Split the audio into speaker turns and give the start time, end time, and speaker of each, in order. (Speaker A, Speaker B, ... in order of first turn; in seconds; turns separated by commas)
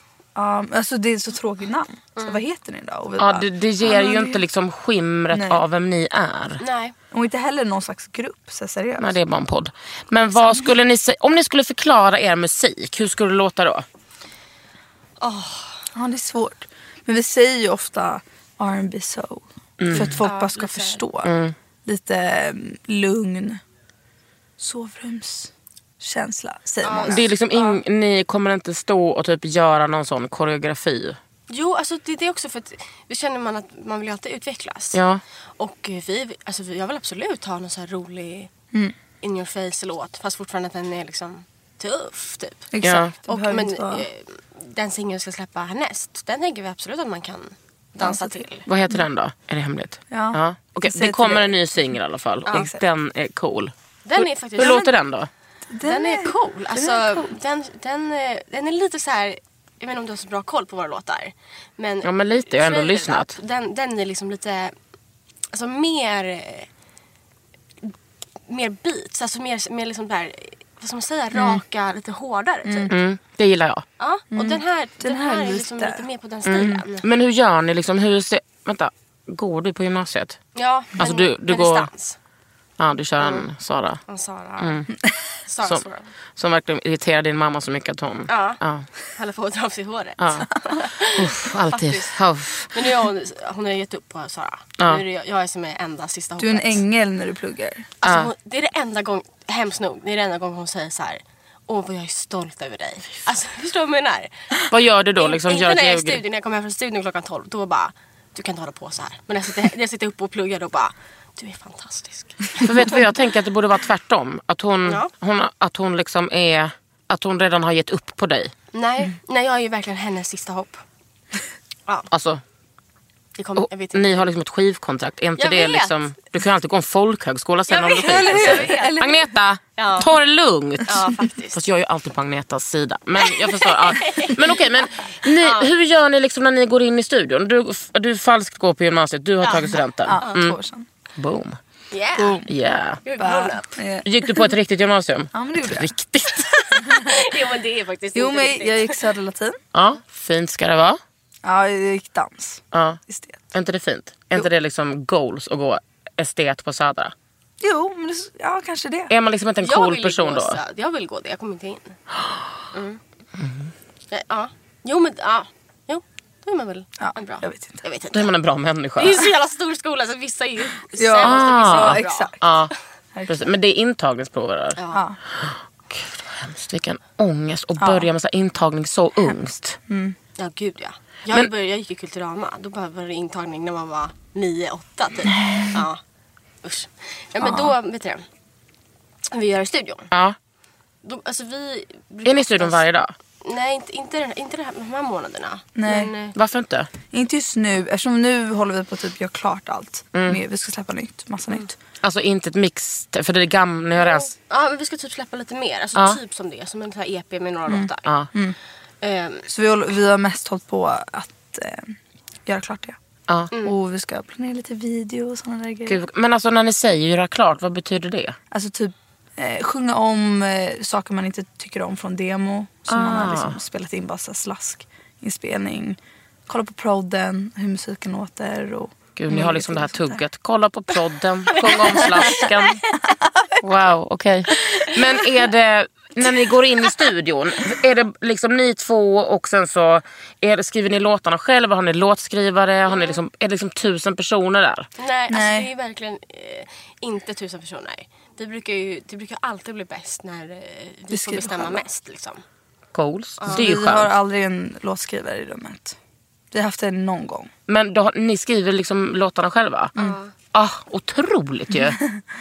Speaker A: 0.3-4.4, Speaker B: 2.2-2.4, Speaker C: 3.2-6.6, Speaker A: 5.3-5.6, Speaker B: 6.6-7.0, Speaker A: 7.1-9.2, Speaker C: 9.0-13.8, Speaker B: 15.2-15.8, Speaker A: 15.9-21.3, Speaker C: 19.8-20.2, Speaker B: 20.0-21.0, Speaker C: 21.2-21.5, Speaker A: 21.9-23.6, Speaker A: 24.6-27.3, Speaker B: 26.8-27.8, Speaker C: 27.1-31.2, Speaker B: 31.5-35.0, Speaker C: 34.9-35.2, Speaker B: 35.6-38.5, Speaker B: 39.2-42.7, Speaker A: 42.7-44.1, Speaker C: 42.8-43.1, Speaker B: 43.2-48.7, Speaker A: 48.0-48.4, Speaker C: 48.7-55.3, Speaker A: 50.1-51.6, Speaker A: 52.5-52.8, Speaker B: 54.0-54.9, Speaker A: 55.7-57.3, Speaker B: 55.8-64.7, Speaker C: 62.0-63.4, Speaker B: 65.5-66.7, Speaker B: 68.5-73.0, Speaker A: 72.7-72.9, Speaker C: 72.9-73.8, Speaker B: 74.0-77.0, Speaker A: 74.3-76.8, Speaker C: 76.5-80.4, Speaker B: 80.5-82.2, Speaker C: 81.0-81.9, Speaker C: 82.8-84.0, Speaker B: 83.2-83.5, Speaker B: 84.1-84.8, Speaker C: 84.6-84.9, Speaker B: 85.5-86.1, Speaker C: 86.4-88.9, Speaker B: 88.3-88.6, Speaker B: 89.1-92.2, Speaker C: 90.2-90.5, Speaker C: 91.1-92.8, Speaker B: 92.7-96.8, Speaker A: 96.4-97.9, Speaker B: 98.0-104.4, Speaker C: 98.0-98.3, Speaker C: 104.7-106.2, Speaker B: 105.2-112.9, Speaker C: 112.6-118.5, Speaker B: 114.8-115.1, Speaker B: 118.7-120.8, Speaker C: 122.1-122.4, Speaker B: 123.4-124.3, Speaker C: 123.6-140.6, Speaker B: 125.4-126.0, Speaker B: 127.7-129.1, Speaker A: 128.0-129.2, Speaker B: 129.8-130.1, Speaker B: 130.9-131.6, Speaker B: 133.2-134.6, Speaker B: 135.4-135.7, Speaker B: 139.4-140.4, Speaker A: 140.0-140.9, Speaker C: 141.2-141.6, Speaker B: 141.9-142.4, Speaker A: 142.2-142.5, Speaker C: 142.5-143.0, Speaker B: 143.0-143.8, Speaker A: 143.2-144.5, Speaker C: 144.1-146.8, Speaker A: 145.3-145.9, Speaker B: 146.7-149.0, Speaker A: 148.1-149.6, Speaker C: 149.7-151.0, Speaker A: 151.4-153.5, Speaker C: 152.7-153.0, Speaker C: 153.5-157.1, Speaker A: 157.6-159.1, Speaker C: 159.1-160.6, Speaker B: 159.6-162.0, Speaker B: 162.7-163.0, Speaker C: 163.4-163.7, Speaker B: 164.1-168.3, Speaker A: 167.0-167.8, Speaker C: 168.1-169.2, Speaker B: 169.0-172.3, Speaker A: 171.0-172.4, Speaker C: 171.2-172.7, Speaker A: 173.2-173.4, Speaker C: 173.3-174.8, Speaker B: 174.8-175.0, Speaker A: 174.9-175.2, Speaker C: 175.3-179.8, Speaker A: 177.8-178.1, Speaker A: 179.9-180.2, Speaker B: 180.4-186.0, Speaker B: 186.6-188.2, Speaker A: 187.4-187.7, Speaker B: 189.3-190.1, Speaker B: 191.0-192.8, Speaker C: 192.2-193.1, Speaker B: 193.4-196.3, Speaker A: 195.8-196.1, Speaker C: 196.4-196.9, Speaker A: 197.1-201.8, Speaker C: 200.1-200.4, Speaker C: 202.0-204.3, Speaker B: 204.0-208.1, Speaker A: 207.7-208.6, Speaker B: 209.0-209.5, Speaker A: 209.5-213.0, Speaker A: 213.6-216.0, Speaker C: 215.9-218.4, Speaker A: 218.5-230.2, Speaker C: 222.9-223.6, Speaker C: 229.2-232.8, Speaker B: 231.6-232.5, Speaker A: 231.6-232.4, Speaker A: 233.2-233.5, Speaker C: 233.6-244.9, Speaker B: 242.9-243.2, Speaker B: 245.0-252.4, Speaker A: 245.3-245.7, Speaker A: 251.1-251.8, Speaker C: 252.9-254.1, Speaker A: 253.5-256.0, Speaker A: 256.5-257.5, Speaker C: 257.7-259.9, Speaker B: 260.0-260.3, Speaker C: 260.5-262.0, Speaker A: 261.7-262.0